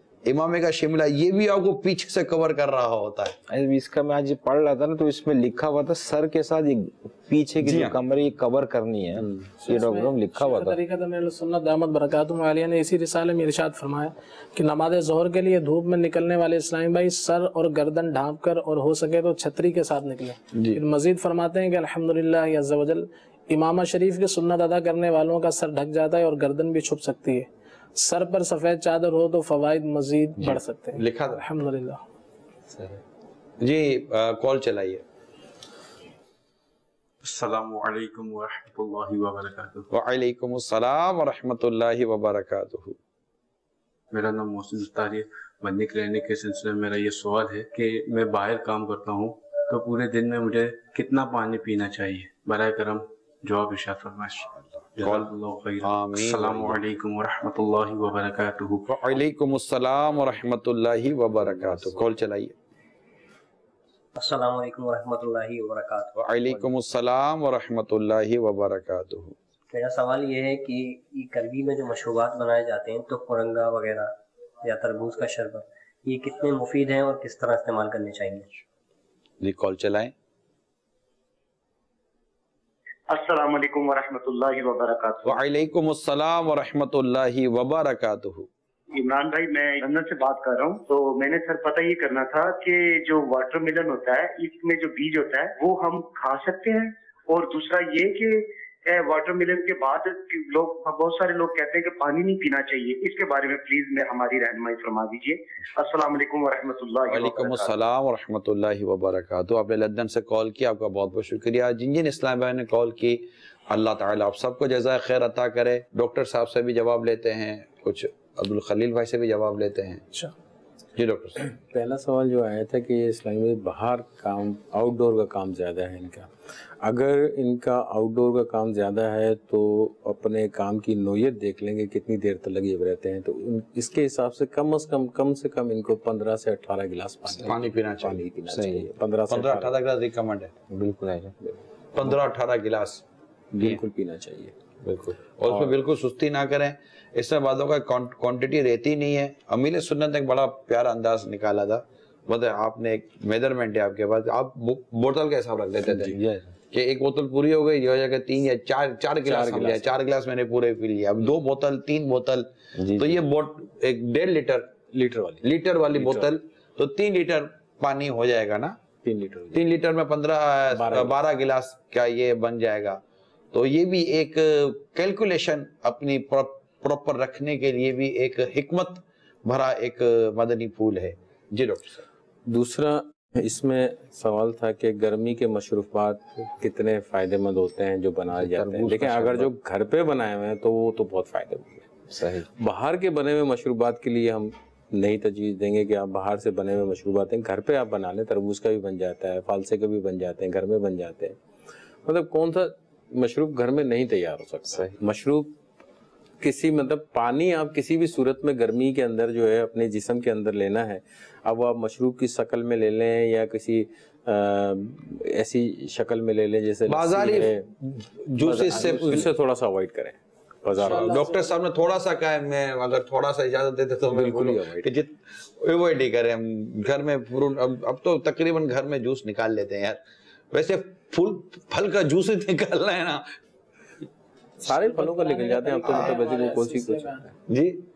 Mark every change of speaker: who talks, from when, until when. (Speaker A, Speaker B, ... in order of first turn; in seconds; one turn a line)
Speaker A: 0.2-3.4
Speaker B: 3.5-10.8
Speaker A: 7.6-8.0
Speaker C: 9.2-9.5
Speaker D: 9.7-32.0
Speaker A: 30.4-31.4
Speaker B: 32.7-33.0
Speaker A: 33.6-35.0
Speaker E: 37.2-39.9
Speaker A: 39.9-43.0
Speaker E: 44.1-59.2
Speaker A: 55.0-56.8
Speaker A: 58.9-62.5
Speaker F: 64.2-66.6
Speaker A: 66.2-69.3
Speaker F: 69.7-78.5
Speaker A: 79.4-80.1
Speaker G: 83.1-85.4
Speaker A: 85.2-88.5
Speaker G: 88.9-107.8
Speaker A: 107.1-120.0
Speaker A: 121.0-121.4
Speaker C: 121.5-126.3
Speaker C: 126.8-139.7
Speaker A: 137.4-138.2
Speaker B: 138.5-138.9
Speaker A: 139.3-140.5
Speaker B: 140.7-141.3
Speaker A: 141.9-143.0
Speaker C: 143.5-144.5
Speaker A: 144.8-156.2
Speaker B: 155.9-156.5
Speaker A: 156.7-164.7
Speaker C: 159.2-160.0
Speaker B: 162.8-163.2
Speaker C: 164.9-166.3
Speaker A: 165.4-168.8
Speaker C: 169.0-169.6
Speaker A: 169.5-173.0
Speaker C: 170.7-171.1
Speaker A: 173.5-182.0
Speaker C: 182.5-191.9
Speaker B: 188.3-189.5
Speaker B: 192.1-192.5
Speaker C: 192.6-201.4
Speaker C: 202.1-205.5
Speaker B: 204.7-204.9
Speaker C: 206.4-217.7
Speaker A: 216.9-219.3
Speaker C: 218.4-221.2
Speaker D: 220.8-221.5
Speaker A: 220.8-230.0
Speaker C: 224.1-224.9
Speaker A: 230.5-233.3
Speaker C: 234.6-237.3
Speaker D: 234.7-237.2
Speaker A: 237.5-237.8